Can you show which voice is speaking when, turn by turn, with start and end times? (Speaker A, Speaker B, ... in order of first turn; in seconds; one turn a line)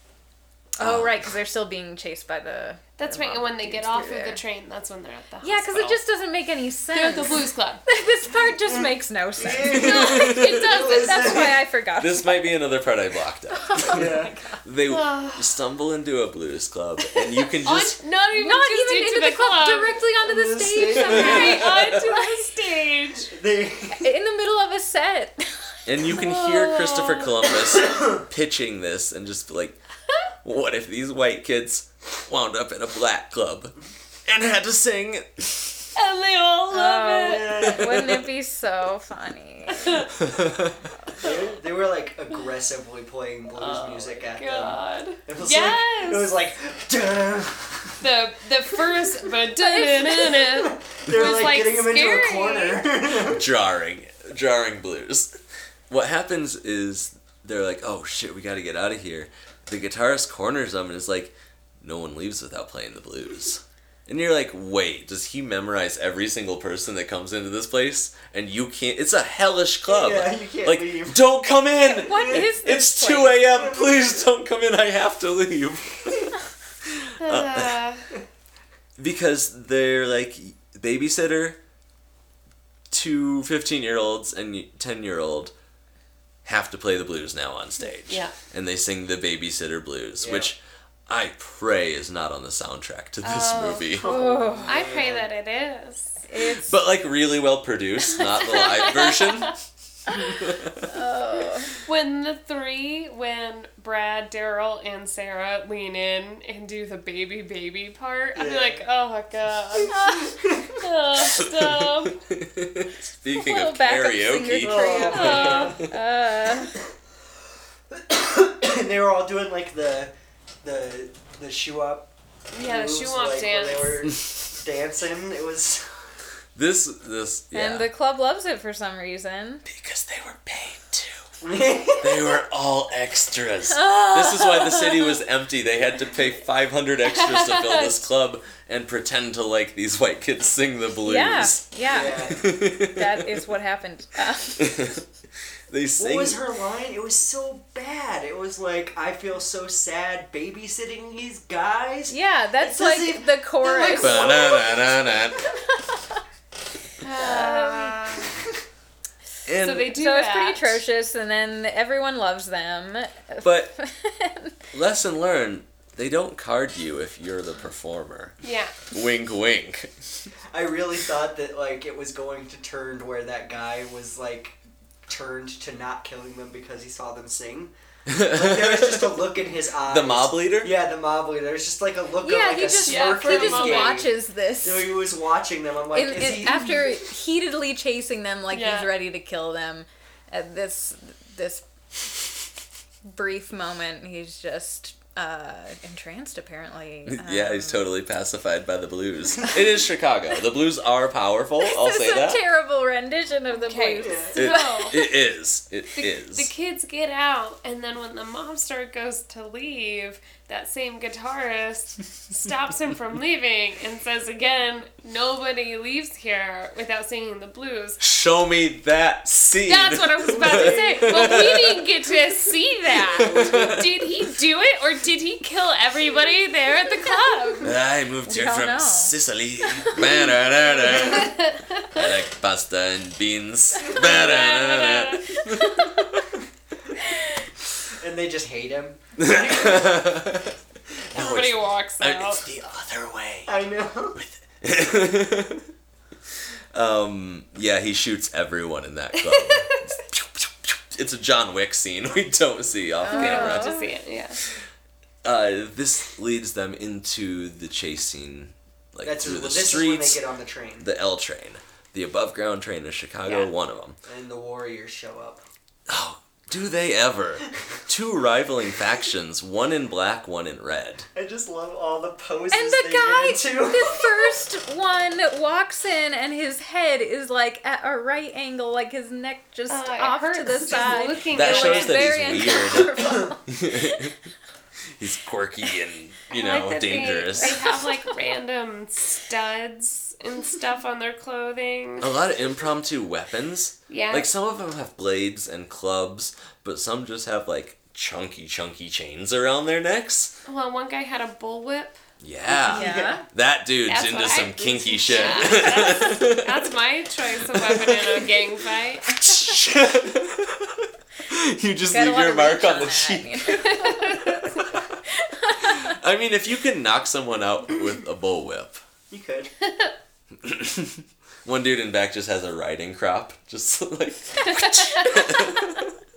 Speaker A: 0.8-4.4
Speaker B: 0.8-1.1
Speaker C: 3.0-6.0
Speaker A: 5.4-12.7
Speaker C: 6.9-7.9
Speaker D: 8.4-11.7
Speaker C: 9.7-11.2
Speaker B: 9.8-10.6
Speaker B: 12.0-18.0
Speaker A: 13.6-14.6
Speaker D: 13.9-14.4
Speaker C: 14.9-15.5
Speaker C: 17.5-20.0
Speaker A: 18.3-22.4
Speaker D: 20.2-21.9
Speaker C: 20.8-23.3
Speaker D: 23.3-24.1
Speaker A: 23.9-25.7
Speaker B: 25.9-29.8
Speaker C: 26.1-27.6
Speaker B: 30.4-33.8
Speaker B: 34.3-35.9
Speaker C: 36.0-38.0
Speaker A: 36.7-40.1
Speaker D: 37.2-38.2
Speaker C: 39.7-40.1
Speaker B: 40.1-40.9
Speaker D: 41.2-48.1
Speaker C: 43.6-46.4
Speaker C: 48.0-52.8
Speaker A: 49.6-50.3
Speaker D: 50.3-53.5
Speaker B: 53.2-55.3
Speaker B: 55.9-77.8
Speaker D: 69.9-71.3
Speaker A: 71.8-73.5
Speaker D: 71.9-72.5
Speaker D: 73.6-74.1
Speaker C: 77.2-78.0
Speaker B: 79.0-81.6
Speaker B: 82.9-85.5
Speaker B: 86.5-94.1
Speaker C: 88.1-88.3
Speaker D: 90.2-90.5
Speaker C: 93.2-96.2
Speaker D: 94.0-95.3
Speaker A: 94.0-94.8
Speaker A: 96.3-96.8
Speaker B: 96.7-99.5
Speaker C: 98.5-99.5
Speaker B: 100.1-100.9
Speaker A: 100.1-101.8
Speaker C: 101.7-112.2
Speaker D: 108.3-108.8
Speaker A: 109.9-110.3
Speaker D: 110.3-110.7
Speaker B: 111.2-115.9
Speaker A: 113.3-116.8
Speaker D: 114.6-115.9
Speaker C: 115.1-115.8
Speaker D: 117.9-120.1
Speaker D: 120.6-125.9
Speaker C: 122.5-124.1
Speaker B: 126.5-127.9
Speaker A: 127.5-129.6
Speaker B: 129.7-131.3
Speaker D: 131.4-132.3
Speaker B: 132.0-143.5
Speaker A: 133.7-135.2
Speaker C: 137.1-138.0
Speaker A: 141.1-144.9
Speaker D: 141.9-142.4
Speaker B: 144.6-145.1
Speaker B: 145.7-146.4
Speaker D: 146.0-154.7
Speaker A: 152.1-154.7
Speaker B: 154.0-155.5
Speaker A: 155.7-156.2
Speaker C: 157.0-158.4
Speaker A: 157.1-158.2
Speaker B: 159.4-159.9
Speaker C: 159.6-160.8
Speaker A: 159.8-164.6
Speaker B: 163.4-163.7
Speaker B: 164.7-168.3
Speaker C: 168.4-168.8
Speaker B: 168.9-170.3
Speaker D: 170.5-177.7
Speaker B: 178.1-179.2
Speaker D: 178.2-184.1
Speaker B: 179.9-180.7
Speaker A: 182.2-184.9
Speaker C: 182.8-184.1
Speaker D: 184.6-187.0
Speaker A: 185.9-191.7
Speaker C: 188.5-188.9
Speaker A: 193.1-197.9
Speaker B: 197.1-202.4
Speaker A: 201.6-205.1
Speaker C: 203.5-205.1
Speaker D: 204.0-204.4
Speaker B: 204.4-206.5
Speaker C: 206.0-218.0
Speaker B: 218.0-221.9
Speaker C: 219.7-227.7
Speaker D: 220.3-221.4
Speaker B: 223.1-224.1
Speaker D: 223.2-223.9
Speaker B: 227.6-236.3
Speaker A: 228.3-229.1
Speaker A: 229.7-230.3
Speaker C: 230.8-232.0
Speaker C: 233.9-235.6
Speaker A: 235.5-235.9
Speaker D: 237.9-240.2
Speaker B: 239.2-240.6
Speaker B: 241.1-243.5
Speaker C: 241.1-242.5
Speaker D: 243.5-244.2
Speaker B: 244.1-245.7
Speaker B: 246.7-253.8
Speaker C: 249.3-249.9
Speaker A: 253.0-253.9
Speaker C: 253.1-254.4
Speaker B: 255.2-260.2
Speaker D: 259.0-260.9
Speaker B: 260.8-264.0
Speaker D: 264.1-265.4
Speaker B: 265.9-271.1
Speaker D: 271.1-274.3
Speaker A: 272.5-284.1
Speaker C: 279.7-282.5
Speaker B: 281.3-284.1
Speaker B: 285.0-287.6
Speaker C: 286.3-292.1
Speaker A: 287.4-287.8
Speaker B: 292.0-300.4
Speaker C: 293.9-294.3
Speaker C: 300.5-302.0
Speaker B: 302.2-306.6
Speaker A: 302.7-303.2
Speaker D: 302.8-303.2
Speaker C: 303.9-309.4
Speaker B: 307.5-308.2
Speaker B: 309.1-315.0
Speaker A: 311.9-314.4
Speaker C: 313.8-314.7
Speaker A: 315.2-315.9
Speaker B: 315.6-318.8
Speaker D: 319.1-319.5
Speaker C: 319.6-319.9
Speaker B: 320.4-325.9